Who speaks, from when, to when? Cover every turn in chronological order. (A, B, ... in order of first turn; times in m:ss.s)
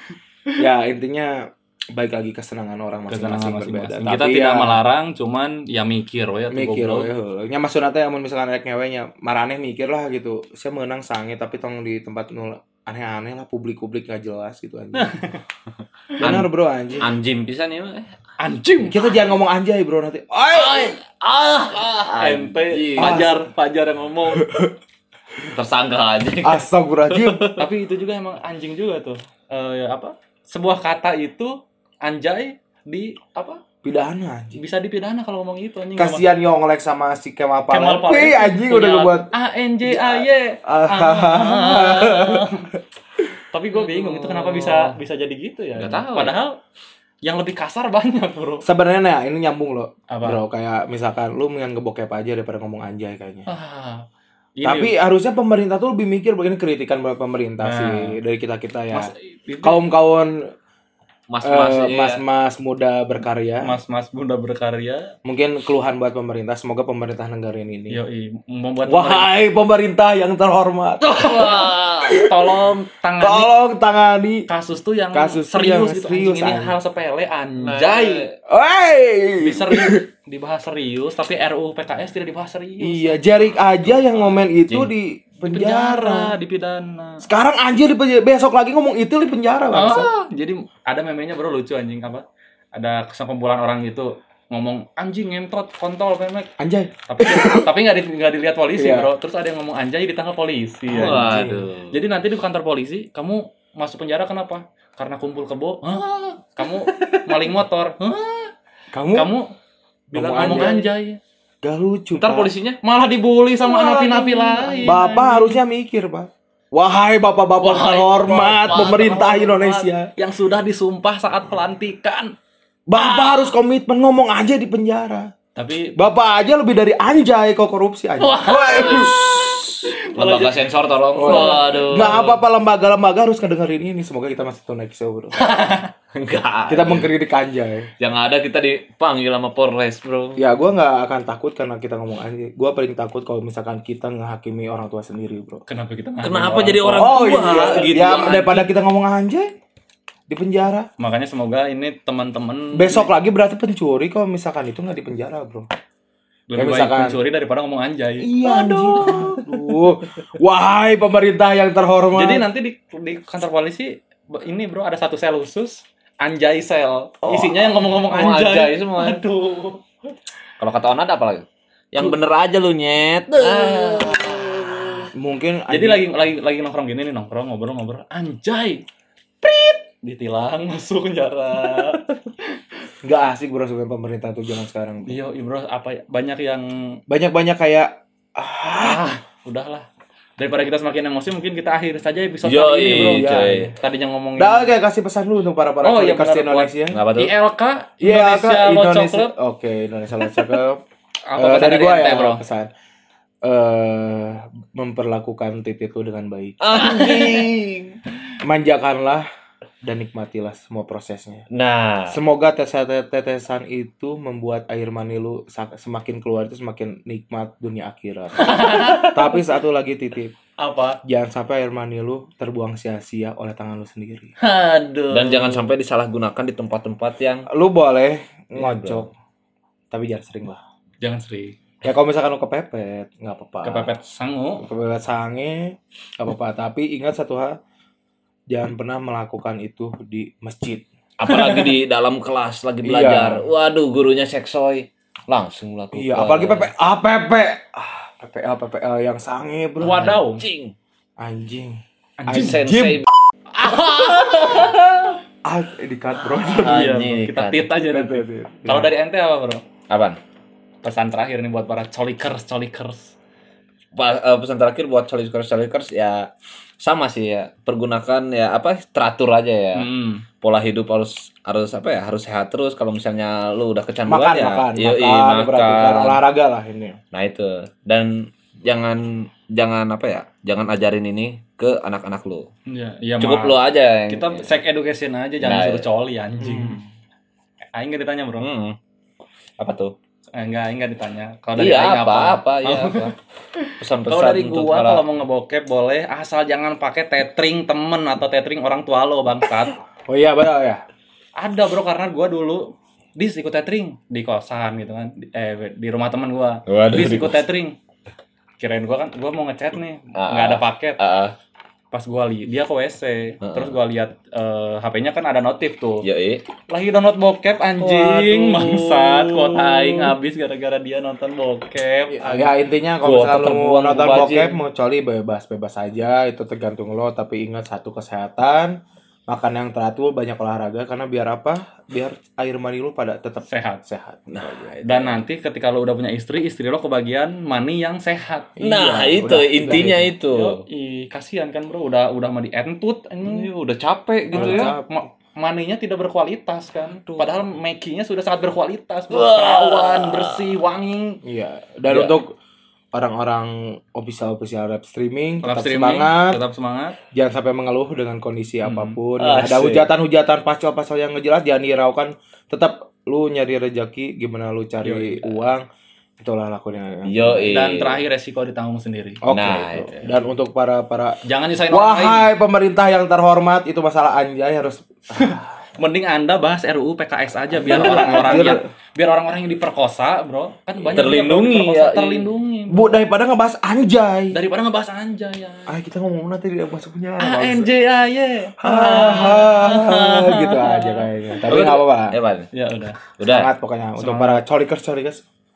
0:00.6-0:04.8 A
0:03.1-0:07.1 B
0:06.5-0:15.1 A
0:14.9-0:15.4 B
0:16.2-0:16.5 C
0:16.2-0:17.1 A
0:17.0-0:18.1 C
0:18.4-0:19.1 B
0:18.9-0:21.0 A
0:20.6-0:23.3 C
0:22.2-0:24.4 B
0:23.0-0:23.4 A
0:24.3-0:24.8 A
0:25.4-0:27.6 C
0:26.4-0:27.4 A
0:27.6-0:33.6 B
0:33.8-0:34.6 A
0:34.6-0:36.2 B
0:36.0-0:39.3 A
0:37.7-0:42.7 B
0:39.8-0:42.5 A
0:43.5-0:46.6 B
0:43.8-0:45.0 C
0:45.8-0:46.4 C
0:47.2-0:48.6 B
0:48.6-0:53.5 A
0:50.1-0:50.4 B
0:53.5-0:54.1 B
0:54.6-0:54.9 B
0:54.6-0:59.1 A
0:57.6-0:58.2 B
0:58.9-0:59.8 B
0:59.6-1:00.3 A
1:01.3-1:02.2 C
1:01.4-1:03.8 A
1:03.6-1:05.1 B
1:05.2-1:08.0 A
1:07.9-1:09.3 B
1:08.9-1:14.5 A
1:11.2-1:13.5 B
1:11.2-1:12.2 C
1:14.5-1:18.3 B
1:15.1-1:16.8 A
1:17.6-1:18.4 C
1:18.4-1:20.0 A
1:19.4-1:23.2 B
1:22.8-1:26.4 A
1:23.8-1:24.9 C
1:25.5-1:27.3 B
1:27.2-1:30.1 A
1:29.7-1:32.2 B
1:32.8-1:36.5 B
1:36.6-1:37.7 A
1:37.1-1:41.4 B
1:38.8-1:39.1 A
1:40.9-1:41.7 A
1:40.9-1:42.0 C
1:41.9-1:48.5 B
1:46.9-1:47.2 C
1:48.9-1:49.3 A
1:49.1-1:49.5 B
1:50.1-1:51.2 B
1:50.1-1:50.9 A
1:50.4-1:50.7 C
1:51.6-1:52.5 A
1:52.2-1:52.8 C
1:52.8-1:55.6 B
1:53.6-2:00.1 A
1:57.6-2:02.3 B
2:02.9-2:05.3 A
2:05.6-2:06.0 B
2:06.0-2:09.5 A
2:08.2-2:09.2 B
2:08.7-2:12.4 C
2:09.8-2:12.2 B
2:11.2-2:15.5 A
2:15.4-2:15.9 B
2:16.2-2:17.1 C
2:16.7-2:17.9 A
2:18.0-2:20.4 C
2:20.4-2:25.6 A
2:25.7-2:28.1 B
2:26.2-2:28.7 C
2:27.0-2:29.5 A
2:30.3-2:30.9 A
2:31.0-2:33.1 B
2:32.7-2:35.7 A
2:36.5-2:39.6 B
2:36.6-2:37.2 A
2:38.2-2:42.4 A
2:38.6-2:39.4 C
2:42.2-2:49.8 B
2:47.2-2:49.2 C
2:50.6-2:55.1 C
2:53.5-2:54.2 B
2:55.1-2:56.1 A
2:55.7-2:58.8 B
2:59.4-3:02.1 B
3:03.0-3:05.2 A
3:05.1-3:07.0 B
3:07.1-3:09.0 A
3:08.8-3:09.9 B
3:10.4-3:14.7 B
3:12.4-3:13.7 C
3:12.9-3:13.7 A
3:14.4-3:17.0 A
3:15.8-3:19.3 B
3:16.9-3:17.3 C
3:18.0-3:20.8 A
3:21.3-3:22.4 B
3:21.4-3:22.7 A
3:23.4-3:27.2 A
3:26.6-3:28.0 C
3:26.8-3:27.4 B
3:28.4-3:29.3 A
3:29.8-3:31.5 A
3:31.5-3:32.2 C
3:32.1-3:40.4 A
3:38.4-3:39.3 B
3:40.6-3:41.0 B
3:41.0-3:44.3 A
3:44.4-3:45.7 B
3:45.1-3:47.5 C
3:47.5-3:49.1 A
3:48.6-3:49.1 C
3:49.9-3:50.6 A
3:51.0-3:51.6 B
3:51.8-3:53.9 A
3:53.6-3:54.6 B
3:54.6-3:57.6 A
3:58.5-4:00.8 A
4:01.2-4:06.7 C
4:01.3-4:01.7 B
4:02.8-4:03.4 A
4:05.9-4:10.2 A
4:09.8-4:10.4 B
4:10.4-4:10.8 C
4:11.2-4:11.8 A
4:12.2-4:12.6 B
4:12.3-4:13.1 C
4:12.3-4:13.1 A
4:13.6-4:15.2 B
4:15.4-4:16.9 A
4:16.5-4:19.6 B
4:16.6-4:17.7 C
4:17.9-4:18.9 A
4:19.9-4:20.2 C
4:20.8-4:23.2 B
4:24.0-4:26.3 C
4:26.8-4:29.9 C
4:29.8-4:30.2 B
4:30.4-4:36.2 C
4:34.1-4:37.0 A
4:37.1-4:42.5 C
4:42.7-4:43.6 B
4:43.2-4:44.6 C
4:44.1-4:46.8 B
4:45.4-4:45.9 C
4:46.4-4:46.9 A
4:47.7-4:48.5 B
4:48.4-4:48.8 C
4:49.6-4:49.9 C
4:50.4-4:53.1 B
4:51.6-4:53.1 C
4:53.7-4:59.8 B
4:53.8-4:55.1 C
5:00.1-5:00.8 A
5:01.4-5:07.8 B
5:06.7-5:07.4 C
5:08.6-5:11.0 B
5:10.2-5:11.4 C
5:11.9-5:16.0 B
5:13.4-5:13.8 C
5:16.0-5:16.4 C
5:16.7-5:22.5 B
5:17.8-5:20.1 C
5:22.1-5:28.8 A
5:23.0-5:24.6 C
5:29.3-5:34.3 A
5:33.5-5:33.8 B
5:34.3-5:35.2 C
5:34.8-5:38.5 B
5:38.6-5:40.1 A
5:38.6-5:40.6 C
5:39.7-5:43.5 B
5:43.2-5:44.8 C
5:44.3-5:51.2 B
5:44.3-5:44.9 A
5:47.0-5:47.4 C
5:49.1-5:50.5 C
5:51.2-5:52.4 A
5:52.9-5:56.4 A
5:55.4-5:57.0 B
5:57.1-6:05.7 A
5:58.6-5:59.8 B
5:59.4-5:59.7 C
6:04.8-6:05.4 B
6:06.2-6:07.6 A
6:07.1-6:08.0 C
6:07.5-6:09.2 B
6:09.2-6:11.2 A
6:09.3-6:10.1 C
6:11.2-6:12.3 B
6:11.7-6:15.5 A
6:15.2-6:23.0 B
6:17.6-6:18.6 C
6:17.6-6:18.6 A
6:20.9-6:22.3 C
6:22.7-6:24.4 A
6:24.3-6:25.7 B
6:25.7-6:27.7 A
6:27.2-6:31.1 B
6:28.6-6:32.2 A
6:31.5-6:32.5 C
6:32.5-6:33.0 B
6:33.2-6:33.5 C
6:33.2-6:35.2 A
6:34.0-6:34.4 B